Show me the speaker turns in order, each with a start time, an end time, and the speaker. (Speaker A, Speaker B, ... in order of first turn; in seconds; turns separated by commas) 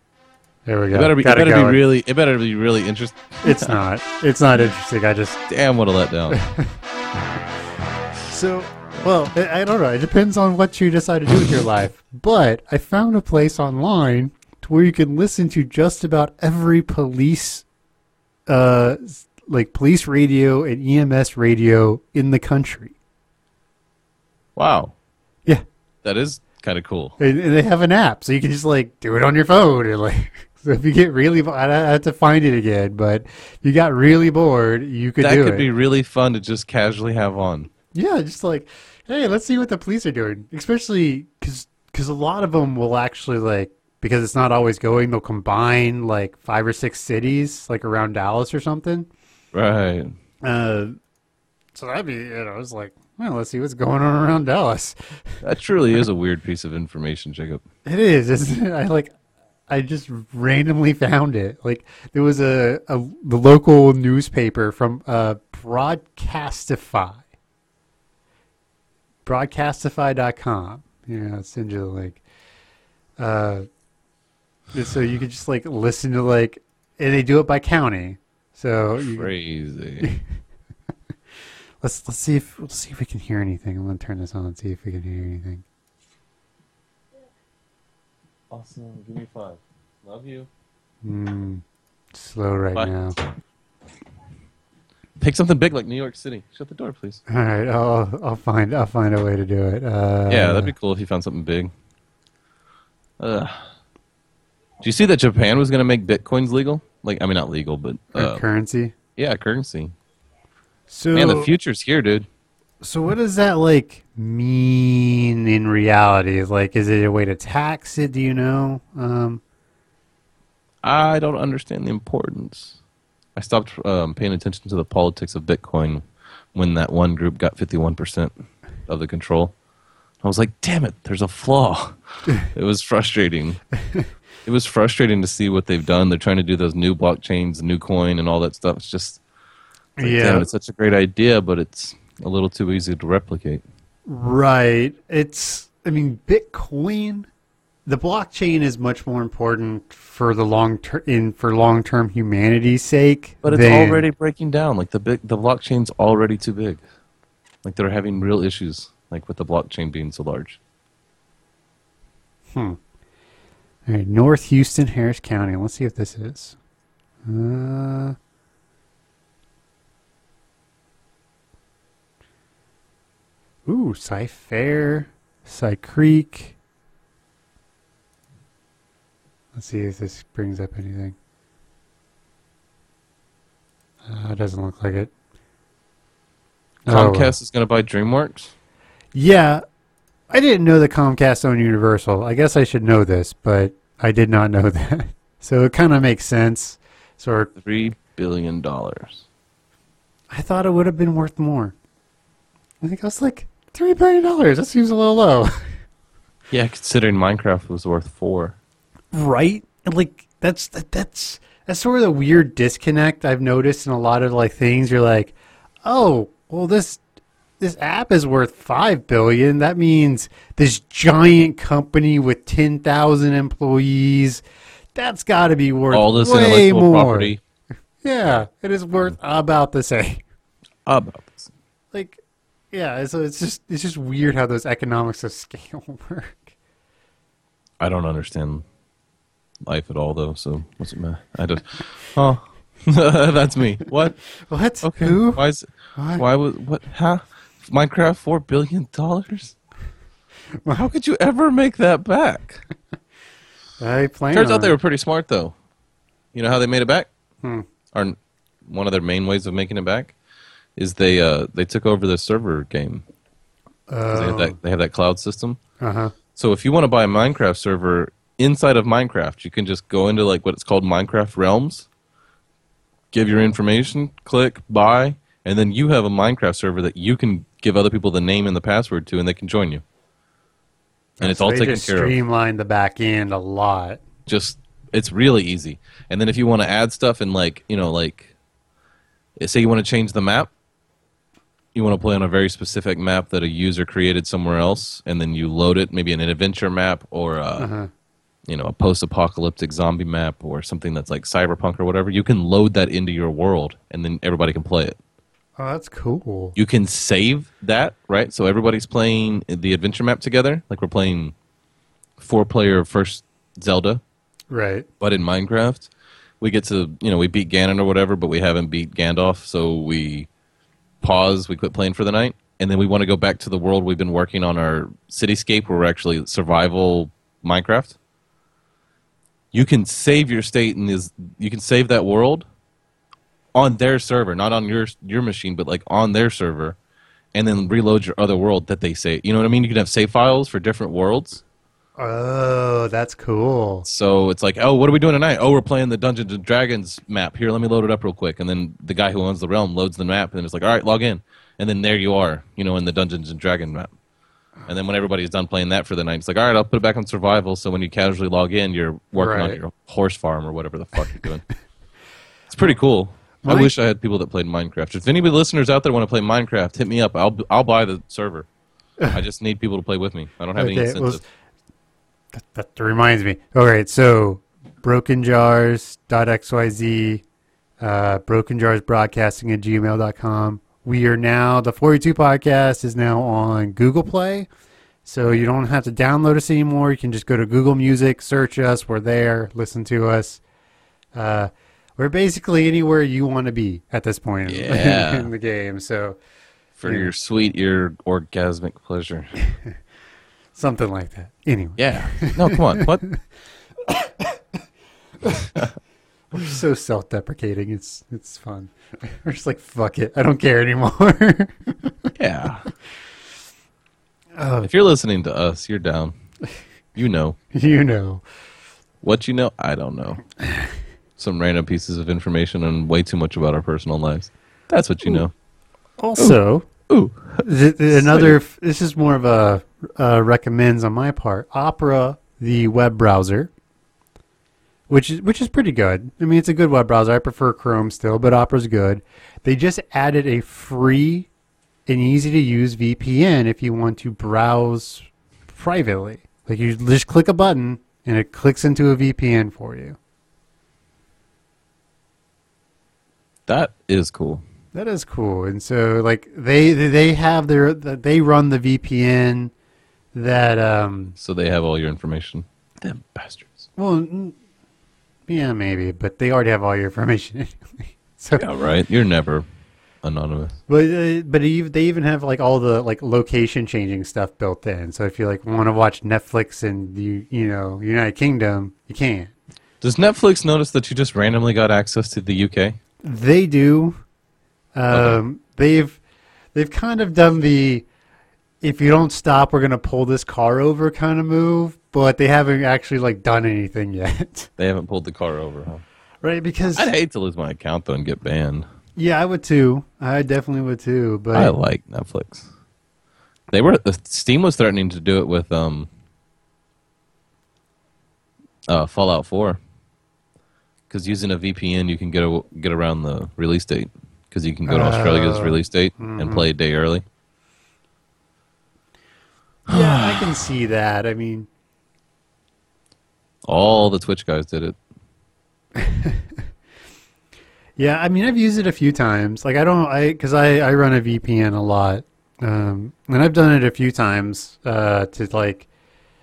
Speaker A: 0.7-1.8, Speaker B: 0.9-3.7, Speaker A: 3.4-5.4, Speaker B: 5.5-6.4, Speaker A: 6.3-6.7, Speaker A: 8.3-17.6, Speaker A: 18.5-22.9, Speaker B: 24.6-24.9, Speaker B: 26.0-27.2, Speaker A: 27.2-35.7, Speaker B: 35.2-37.7, Speaker A: 37.9-49.1, Speaker B: 49.5-50.1, Speaker A: 50.4-51.0, Speaker A: 51.8-55.0, Speaker B: 55.4-57.6, Speaker A: 57.9-59.1, Speaker A: 59.7-67.2, Speaker A: 69.2-72.2, Speaker A: 73.2-73.7, Speaker A: 74.7-79.3, Speaker B: 79.1-80.1, Speaker A: 81.8-85.6, Speaker B: 88.5-90.5, Speaker A: 91.0-91.6, Speaker A: 92.1-93.2, Speaker B: 92.8-93.2, Speaker B: 95.2-97.2, Speaker A: 97.3-100.7, Speaker B: 100.3-101.7, Speaker B: 103.2-103.7, Speaker B: 104.8-108.4, Speaker A: 108.1-108.9, Speaker B: 109.2-109.9, Speaker A: 110.9-111.5, Speaker B: 111.1-112.3, Speaker A: 112.8-119.4, Speaker B: 120.8-122.8, Speaker B: 123.3-128.3, Speaker B: 128.9-129.5, Speaker B: 130.2-133.6, Speaker B: 134.4-139.2, Speaker A: 140.0-140.5, Speaker B: 140.0-143.6, Speaker A: 144.1-147.3, Speaker A: 147.9-154.0, Speaker B: 153.4-156.8, Speaker B: 157.6-160.6, Speaker A: 163.9-166.6, Speaker A: 167.3-168.2, Speaker A: 173.7-176.5, Speaker A: 179.6-181.2, Speaker A: 184.1-185.1, Speaker A: 186.9-187.3, Speaker B: 186.9-188.5, Speaker A: 189.1-189.6, Speaker A: 190.3-197.5, Speaker B: 197.6-199.2, Speaker A: 200.3-201.7, Speaker A: 202.8-205.7, Speaker B: 206.5-208.6, Speaker A: 209.1-215.3, Speaker A: 215.8-217.0, Speaker A: 217.6-224.4, Speaker A: 224.9-227.4, Speaker B: 225.9-227.4, Speaker A: 228.0-230.2, Speaker B: 230.9-231.5, Speaker A: 231.9-232.2, Speaker A: 232.7-236.4, Speaker B: 237.8-238.7, Speaker B: 239.6-244.2, Speaker A: 244.5-245.4, Speaker B: 244.8-249.6, Speaker A: 245.9-246.2, Speaker B: 250.7-252.6, Speaker A: 253.8-254.7, Speaker B: 254.3-255.5, Speaker B: 256.3-257.1, Speaker B: 257.9-260.1, Speaker B: 260.8-263.0, Speaker A: 263.9-264.6, Speaker B: 264.1-265.6, Speaker A: 265.8-266.1, Speaker B: 266.4-271.9, Speaker B: 273.1-279.8, Speaker A: 281.2-284.0, Speaker B: 281.2-282.2, Speaker B: 284.3-288.3, Speaker B: 289.4-290.5, Speaker B: 291.7-297.7, Speaker A: 297.6-297.9, Speaker B: 298.5-305.0, Speaker A: 305.6-306.6, Speaker B: 306.6-311.3, Speaker B: 312.2-314.0, Speaker A: 314.5-314.9, Speaker B: 315.0-315.9, Speaker B: 316.4-320.3, Speaker B: 321.0-328.0, Speaker B: 329.5-332.5, Speaker B: 333.5-336.8, Speaker B: 337.3-341.4, Speaker A: 342.0-343.9, Speaker B: 343.9-353.9, Speaker B: 354.7-361.5, Speaker A: 359.2-359.6, Speaker B: 362.5-368.5, Speaker A: 363.4-363.7, Speaker B: 369.1-371.2, Speaker A: 370.6-371.2, Speaker A: 372.3-377.2, Speaker A: 377.8-384.5, Speaker A: 385.1-390.4, Speaker A: 391.1-396.2, Speaker B: 394.5-395.3, Speaker B: 396.8-399.3, Speaker A: 400.6-403.1, Speaker B: 401.8-403.0, Speaker A: 403.9-404.4, Speaker A: 405.2-405.5, Speaker A: 406.3-412.1, Speaker B: 412.2-412.7, Speaker A: 414.4-414.7, Speaker B: 414.6-416.1, Speaker B: 416.9-417.4, Speaker A: 417.5-418.2, Speaker B: 419.0-420.2, Speaker B: 421.2-425.3, Speaker A: 426.0-426.7, Speaker B: 426.9-428.4, Speaker A: 427.4-433.5, Speaker A: 434.9-441.3, Speaker A: 441.9-450.0, Speaker B: 453.5-454.4, Speaker A: 454.7-459.5, Speaker A: 460.1-461.2, Speaker B: 461.2-463.6, Speaker A: 463.8-464.4, Speaker A: 465.3-468.5, Speaker B: 468.4-469.5, Speaker B: 470.0-470.6, Speaker A: 470.7-479.3, Speaker B: 479.8-482.8, Speaker A: 483.0-484.0, Speaker A: 484.8-486.0, Speaker B: 484.9-485.2, Speaker A: 486.5-487.9, Speaker A: 488.6-494.5, Speaker B: 494.6-495.8, Speaker A: 496.2-496.9, Speaker B: 496.8-498.7, Speaker A: 499.0-501.6, Speaker B: 501.3-502.5, Speaker B: 503.5-505.9, Speaker B: 508.7-509.6, Speaker B: 510.9-517.0, Speaker A: 514.7-516.5, Speaker B: 519.7-520.4, Speaker A: 519.7-521.5, Speaker B: 523.5-524.8, Speaker A: 525.8-526.2, Speaker A: 527.8-535.7